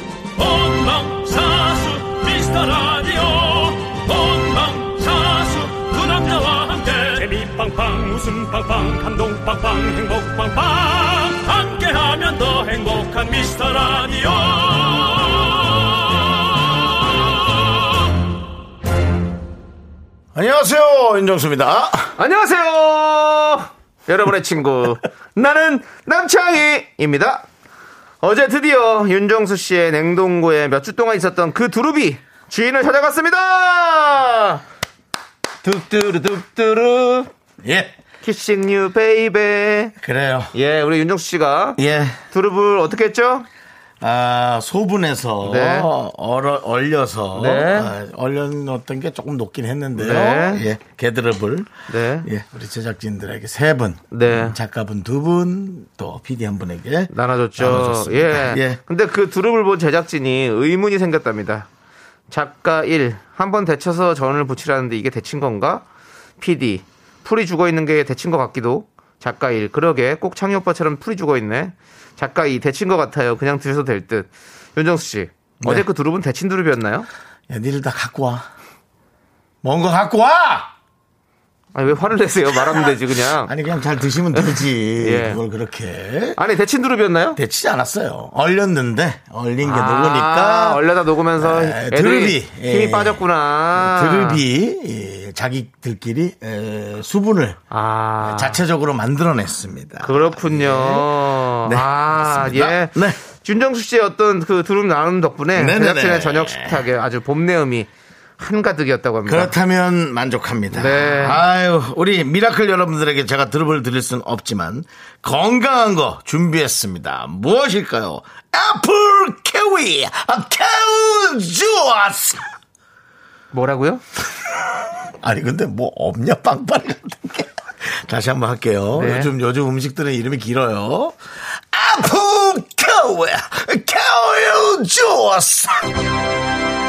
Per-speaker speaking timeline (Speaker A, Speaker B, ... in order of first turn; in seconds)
Speaker A: 0.3-18.0
Speaker B: 20.3-22.1, 37.6-37.9, 40.0-40.5, 41.8-42.2, 44.0-51.7, 52.2-58.8, 75.6-75.8, 77.5-78.5, 79.6-80.7, 83.4-86.4, 87.3-90.8, 91.3-97.6, 98.2-103.2, 105.5-106.8, 109.2-122.5, 125.2-136.0
Speaker C: 22.2-27.4, 28.2-34.6, 35.6-37.3, 38.2-39.9, 40.5-41.8, 42.3-43.5, 45.4-45.9, 47.3-47.9, 50.0-50.6, 51.9-52.3, 54.1-54.5, 57.1-61.7, 62.3-65.8, 66.4-77.1, 81.7-83.5, 84.3-85.4, 86.4-87.4, 89.6-94.4, 97.7-98.6, 100.0-109.5, 110.7-111.4, 123.5-124.0, 128.9-129.3